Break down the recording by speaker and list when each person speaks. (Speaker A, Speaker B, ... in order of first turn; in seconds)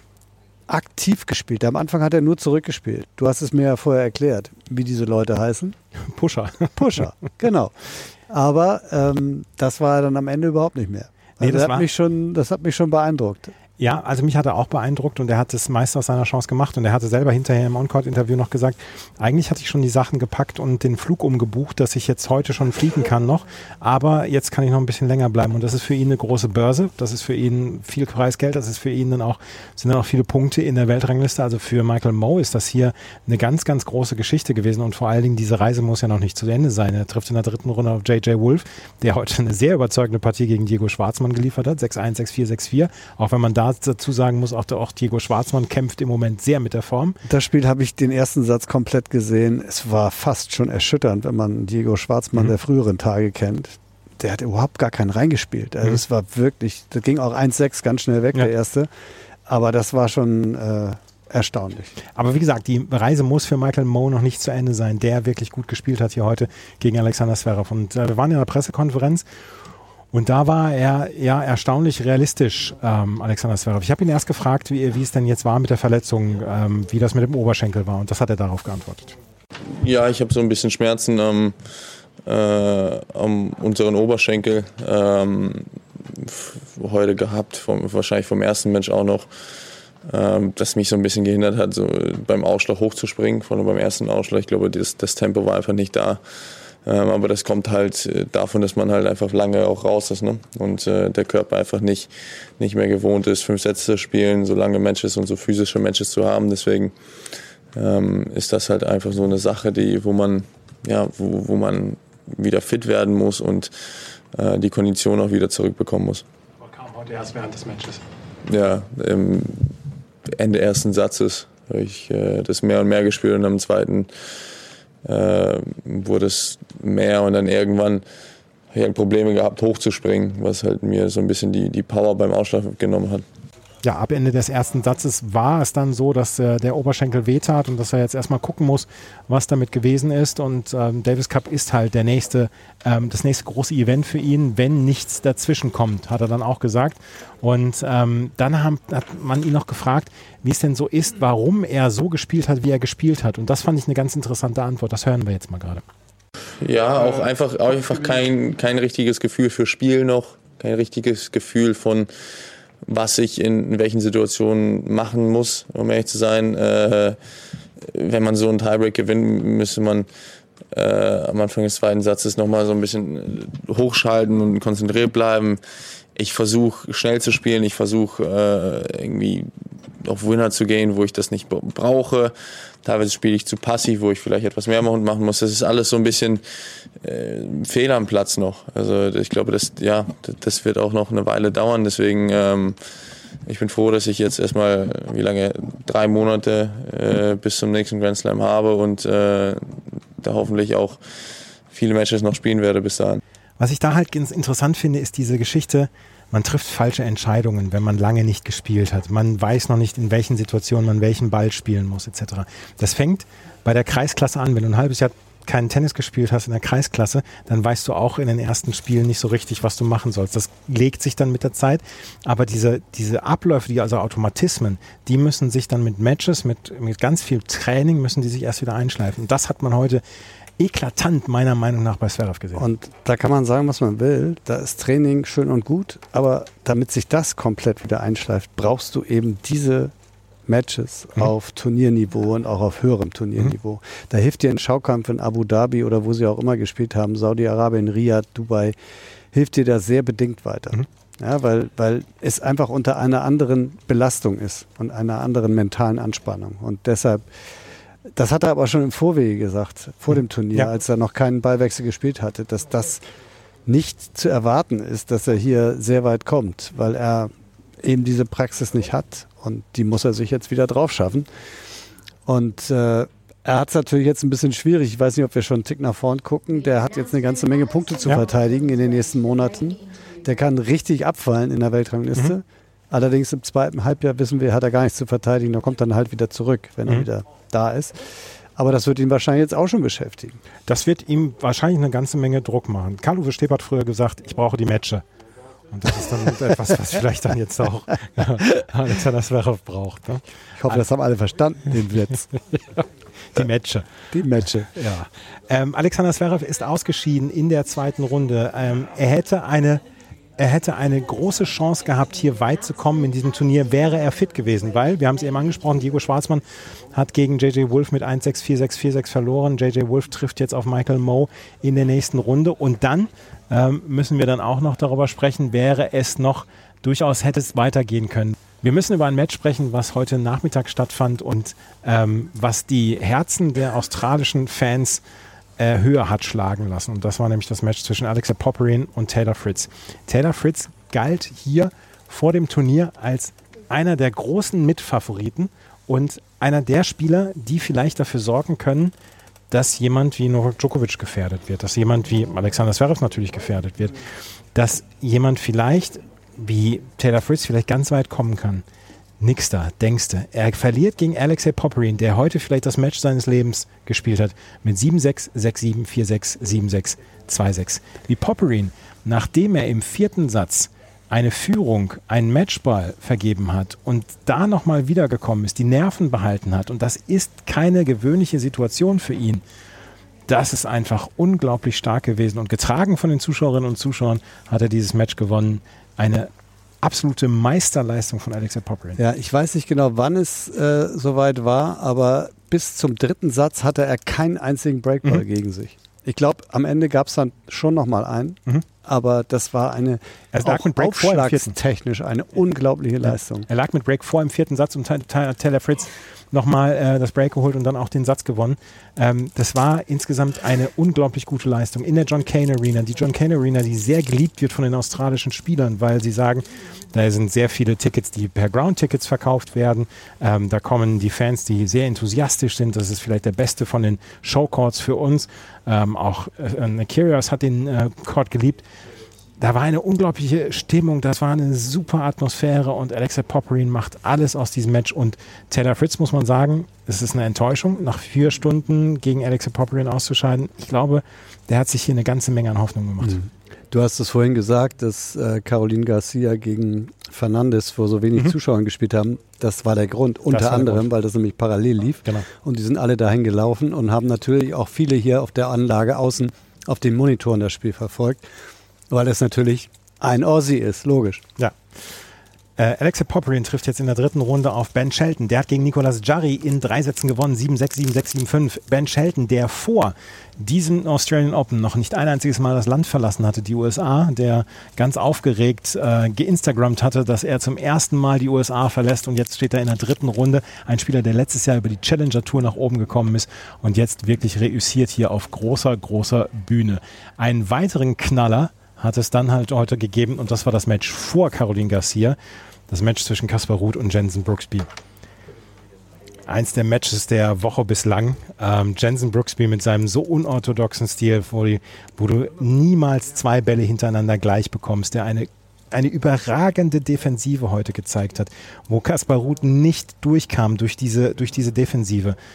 Speaker A: 0.7-5.8, 6.8-13.5, 47.3-58.9, 59.5-62.0, 232.6-239.9, 240.5-248.8, 249.3-257.3, 258.1-263.0, 263.7-271.3, 272.3-288.0, 288.6-290.4, 300.6-302.3, 304.1-304.8, 389.0-403.5, 443.0-458.2, 458.9-461.2
Speaker B: 6.0-7.0, 11.4-11.9, 13.8-47.2, 62.1-69.2, 70.1-79.2, 116.6-118.0, 133.8-155.8, 203.6-230.0, 230.6-232.7, 290.7-295.1, 295.7-300.8, 302.3-304.0, 304.7-309.8, 310.4-335.0, 335.6-348.9, 349.5-354.0, 354.6-358.6, 359.2-379.4, 380.3-386.3, 386.8-389.0, 400.3-401.6, 403.0-428.6, 429.4-443.2, 450.3-450.8, 462.6-492.2, 492.7-494.7, 496.3-512.2
Speaker C: 79.7-81.6, 82.2-89.3, 90.1-96.2, 96.8-107.0, 107.7-113.7, 114.3-116.2, 118.5-119.8, 120.3-124.1, 125.0-128.0, 128.7-133.2, 156.6-162.1, 162.9-167.2, 167.8-170.1, 170.7-175.6, 176.2-179.5, 180.0-186.4, 187.0-192.8, 193.5-201.0, 201.7-203.2